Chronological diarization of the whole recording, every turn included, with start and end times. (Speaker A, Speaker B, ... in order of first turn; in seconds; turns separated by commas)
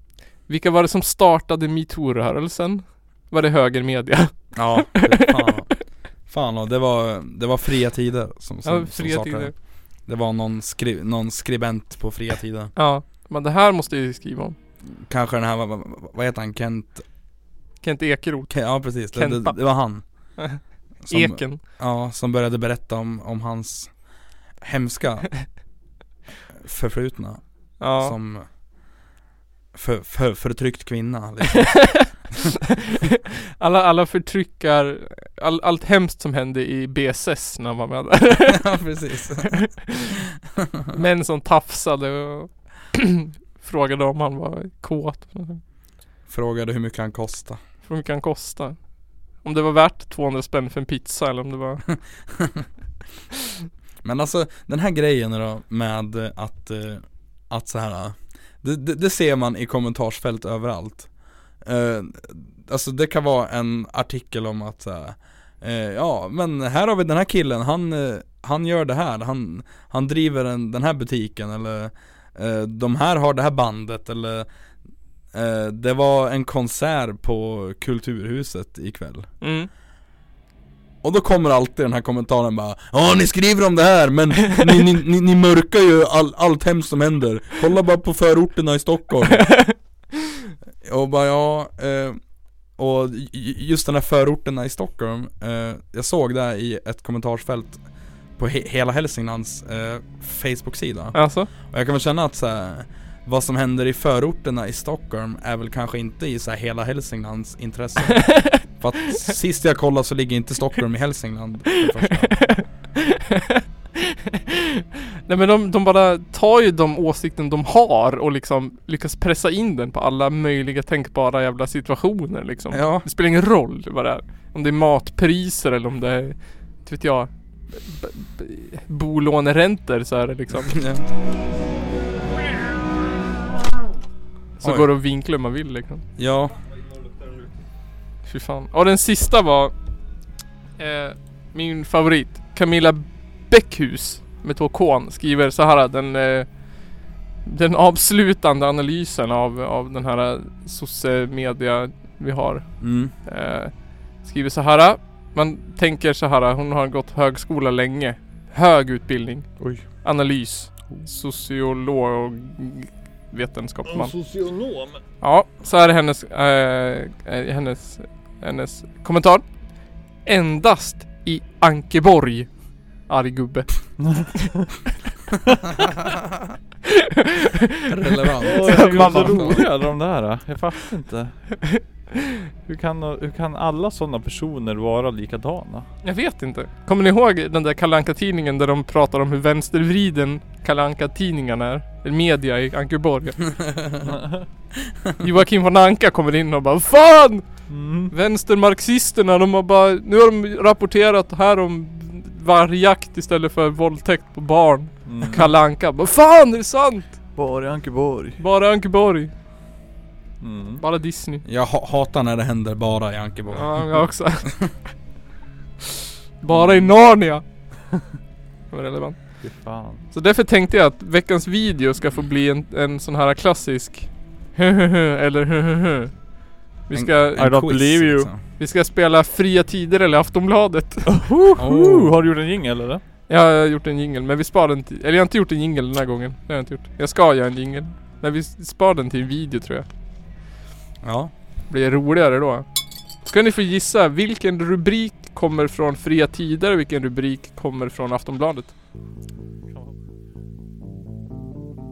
Speaker A: 0.4-5.3, Speaker B: 4.5-12.7, Speaker A: 8.6-9.5, Speaker A: 12.8-14.6, Speaker B: 15.0-17.1, Speaker A: 17.8-19.8, Speaker B: 18.5-20.0, Speaker A: 20.4-21.6, Speaker B: 21.0-24.0, Speaker B: 24.6-25.5, Speaker B: 26.6-28.5, Speaker A: 27.8-28.1, Speaker B: 29.7-32.3, Speaker A: 31.6-32.1, Speaker A: 33.6-38.6, Speaker B: 38.5-40.0, Speaker A: 39.5-40.1, Speaker B: 40.6-41.0, Speaker A: 40.9-45.6, Speaker B: 46.3-47.6, Speaker A: 47.9-48.8, Speaker A: 49.4-51.8, Speaker B: 52.4-52.7, Speaker B: 54.0-74.5, Speaker B: 75.3-79.3, Speaker A: 79.4-79.7, Speaker B: 81.0-89.7, Speaker A: 89.4-89.8, Speaker B: 90.8-92.2, Speaker B: 92.8-97.8, Speaker B: 98.4-112.6, Speaker A: 101.1-101.5, Speaker A: 108.2-108.6, Speaker A: 112.3-130.8, Speaker B: 122.7-123.1, Speaker B: 130.6-131.1, Speaker A: 134.6-136.0, Speaker B: 134.6-134.9, Speaker B: 136.2-136.6, Speaker C: 137.2-137.5, Speaker A: 138.3-139.7, Speaker A: 140.8-146.6, Speaker A: 147.4-164.1, Speaker B: 152.8-153.1, Speaker C: 159.6-159.9, Speaker C: 163.8-165.0, Speaker A: 165.2-169.5, Speaker A: 170.2-172.5, Speaker A: 173.1-174.1, Speaker C: 174.0-174.7, Speaker B: 177.9-179.6, Speaker A: 178.4-179.7, Speaker C: 178.4-181.6, Speaker C: 182.6-185.9, Speaker A: 186.0-193.5, Speaker B: 193.6-194.1, Speaker C: 194.0-194.5, Speaker A: 195.2-207.1, Speaker C: 197.7-198.1, Speaker C: 205.1-205.5, Speaker C: 207.4-208.4, Speaker A: 208.4-209.3, Speaker C: 210.4-210.8, Speaker A: 210.8-211.4, Speaker B: 211.4-214.0, Speaker A: 213.5-214.5, Speaker A: 216.4-217.4, Speaker C: 216.5-216.9, Speaker A: 218.7-219.4, Speaker C: 219.4-220.0, Speaker A: 220.1-226.2, Speaker A: 226.9-227.4, Speaker B: 226.9-228.4, Speaker C: 227.4-228.3, Speaker A: 228.6-231.3, Speaker C: 231.1-233.0, Speaker B: 231.6-232.1, Speaker A: 233.3-239.9, Speaker B: 241.0-241.3, Speaker A: 241.7-242.6, Speaker A: 243.2-248.7